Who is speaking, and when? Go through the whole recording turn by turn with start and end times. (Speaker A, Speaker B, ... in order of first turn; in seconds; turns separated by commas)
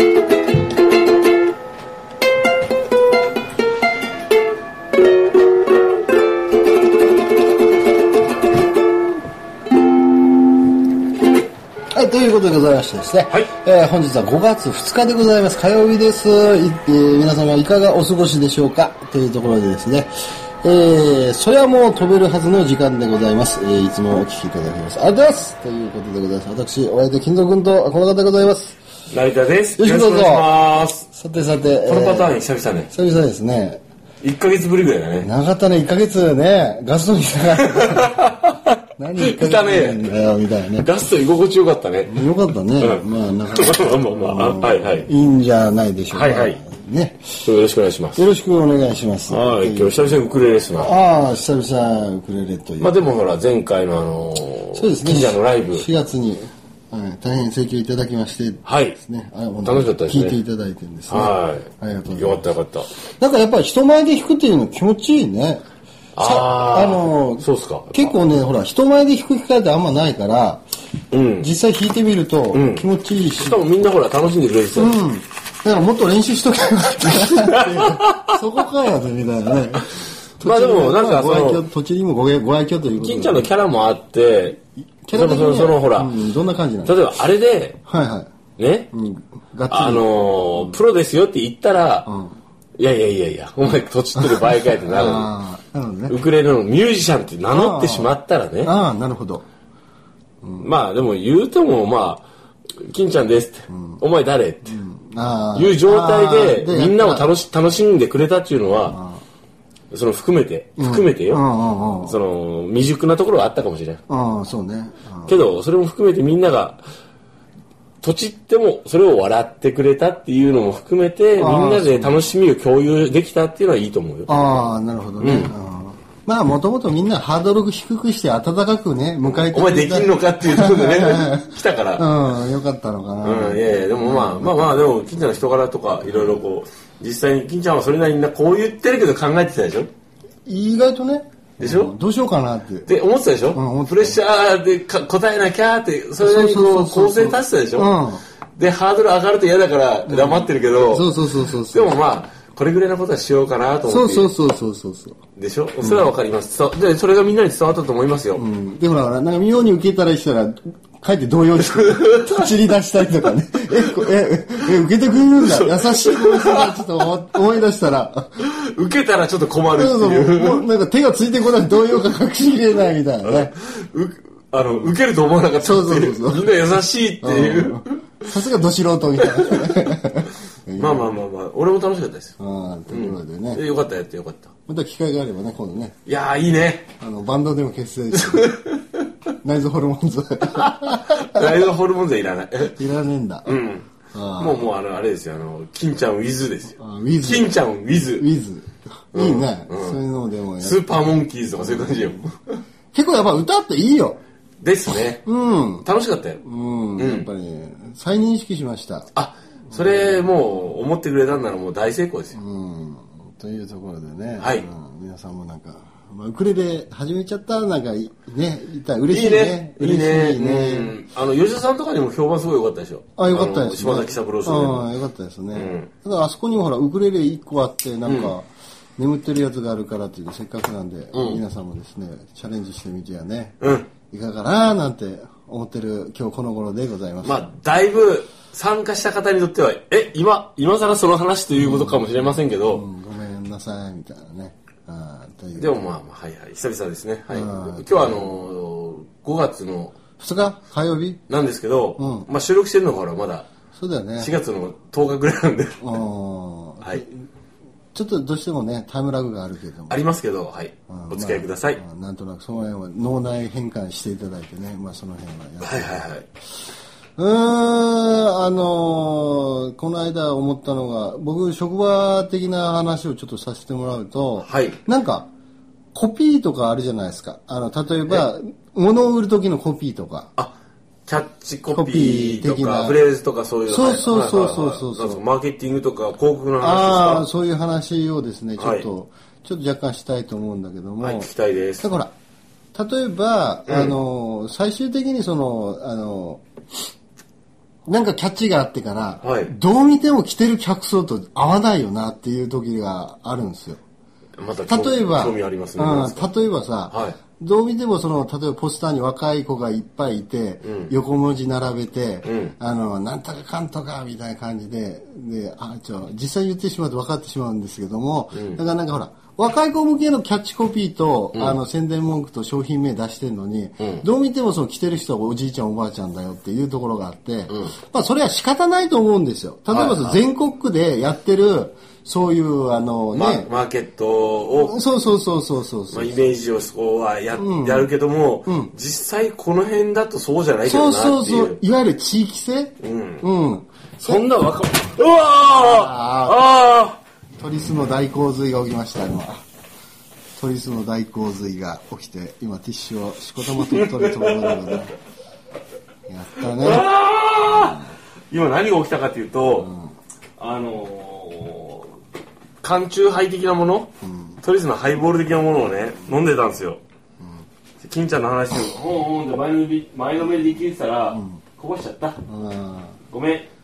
Speaker A: 11.9-28.8, Speaker B: 29.1-31.1, Speaker A: 29.8-30.5, Speaker A: 31.1-32.4, Speaker B: 31.8-32.9, Speaker A: 32.9-33.8, Speaker B: 34.2-35.3, Speaker A: 35.2-38.1, Speaker B: 37.6-40.1, Speaker A: 39.0-40.9, Speaker B: 40.8-45.1, Speaker A: 42.1-47.3, Speaker B: 46.1-46.6, Speaker B: 47.4-48.2, Speaker A: 48.1-53.0, Speaker B: 49.3-50.9, Speaker B: 52.8-55.9, Speaker A: 54.7-62.5, Speaker B: 58.6-59.0, Speaker B: 59.6-60.4, Speaker B: 61.1-62.9, Speaker A: 63.2-65.6, Speaker B: 66.2-68.1, Speaker A: 66.2-70.6, Speaker B: 71.1-71.5, Speaker A: 71.4-73.6, Speaker B: 72.5-75.0, Speaker A: 74.8-83.5, Speaker B: 77.0-78.3, Speaker B: 80.4-81.7, Speaker B: 83.0-84.6, Speaker A: 85.0-87.0, Speaker B: 85.1-86.2, Speaker B: 86.8-87.8, Speaker A: 87.8-88.3, Speaker B: 88.6-88.9, Speaker A: 88.9-90.8, Speaker B: 89.7-92.1, Speaker A: 92.0-92.3, Speaker B: 92.8-95.3, Speaker A: 94.2-96.2, Speaker B: 96.1-98.7, Speaker A: 97.5-99.4, Speaker A: 100.4-100.7, Speaker B: 100.6-102.2, Speaker B: 102.8-104.8, Speaker A: 103.7-104.0, Speaker A: 104.6-107.3, Speaker B: 105.5-109.0, Speaker A: 108.8-109.2, Speaker B: 109.9-111.4, Speaker A: 110.8-112.2, Speaker B: 112.0-114.0, Speaker A: 114.1-115.4, Speaker B: 115.2-116.8, Speaker B: 118.0-124.6, Speaker A: 121.4-122.2, Speaker A: 124.3-134.9, Speaker B: 125.2-125.5, Speaker B: 129.2-132.1, Speaker B: 133.2-139.9, Speaker A: 136.0-136.4, Speaker A: 140.4-142.9, Speaker B: 141.6-141.9, Speaker B: 142.8-147.9, Speaker A: 143.5-144.2, Speaker A: 146.2-148.2, Speaker B: 148.6-154.3, Speaker A: 150.1-152.0, Speaker A: 153.8-155.2, Speaker B: 155.3-158.4, Speaker A: 155.8-156.1, Speaker A: 158.3-168.4, Speaker B: 161.6-162.5, Speaker B: 163.7-164.1, Speaker B: 165.3-167.1, Speaker B: 168.4-170.7, Speaker A: 169.7-173.5, Speaker B: 173.2-178.2, Speaker A: 174.6-175.0, Speaker A: 175.6-181.1, Speaker B: 179.2-179.7, Speaker B: 180.8-182.4, Speaker A: 182.4-183.6, Speaker B: 182.9-184.5, Speaker A: 184.7-186.0, Speaker B: 186.1-186.9, Speaker A: 187.0-188.6, Speaker B: 188.1-189.1, Speaker A: 189.4-191.6, Speaker B: 190.6-192.8, Speaker A: 192.7-193.6, Speaker B: 193.4-198.3, Speaker A: 194.1-194.7, Speaker A: 196.8-202.2, Speaker B: 199.1-200.0, Speaker B: 200.6-202.6, Speaker A: 202.9-204.2, Speaker B: 204.6-205.3, Speaker A: 205.2-205.9, Speaker B: 205.8-206.4, Speaker A: 206.4-209.1, Speaker B: 206.9-207.3, Speaker B: 209.1-212.4, Speaker A: 209.7-210.2, Speaker A: 212.3-220.9, Speaker B: 214.4-214.7, Speaker B: 219.1-224.9, Speaker A: 223.2-237.5, Speaker B: 225.5-225.9, Speaker B: 228.1-228.3, Speaker B: 231.1-231.4, Speaker B: 233.6-233.9, Speaker B: 237.2-242.9, Speaker A: 241.5-245.9, Speaker B: 245.6-250.0, Speaker A: 247.3-248.3, Speaker A: 250.2-251.2, Speaker B: 251.3-253.5, Speaker A: 252.0-252.3, Speaker A: 253.8-254.3, Speaker B: 254.2-256.0, Speaker A: 255.8-257.2, Speaker A: 257.9-260.0, Speaker B: 259.9-261.8, Speaker A: 260.9-266.1, Speaker B: 265.6-266.3, Speaker A: 267.2-275.3, Speaker B: 274.4-274.8, Speaker A: 275.9-280.3, Speaker B: 281.1-287.3, Speaker A: 281.7-283.0, Speaker A: 283.7-285.2, Speaker A: 286.6-292.1, Speaker B: 288.6-288.9, Speaker B: 291.0-291.9, Speaker A: 292.7-296.4, Speaker B: 293.7-294.0, Speaker A: 297.9-303.8, Speaker B: 299.2-299.5, Speaker B: 304.4-306.3, Speaker A: 304.7-333.5, Speaker B: 306.9-307.2, Speaker B: 310.6-310.9, Speaker B: 312.2-312.6, Speaker B: 318.3-318.6, Speaker B: 323.8-324.0, Speaker B: 329.7-330.2, Speaker B: 333.1-334.8, Speaker A: 334.5-336.4, Speaker B: 335.9-341.6, Speaker A: 337.4-337.9, Speaker A: 338.4-338.7, Speaker A: 340.6-344.2, Speaker B: 342.8-343.3, Speaker B: 344.0-347.0, Speaker A: 345.4-346.4, Speaker A: 347.4-349.4, Speaker A: 350.4-354.9, Speaker B: 353.4-354.9, Speaker A: 356.1-356.9, Speaker B: 356.4-359.7, Speaker A: 357.4-357.9, Speaker A: 359.5-359.9, Speaker B: 360.4-362.0, Speaker B: 362.6-366.8, Speaker A: 364.0-364.4, Speaker A: 367.2-367.4, Speaker B: 367.8-372.2, Speaker A: 371.1-371.4, Speaker A: 372.2-373.0, Speaker B: 373.1-373.5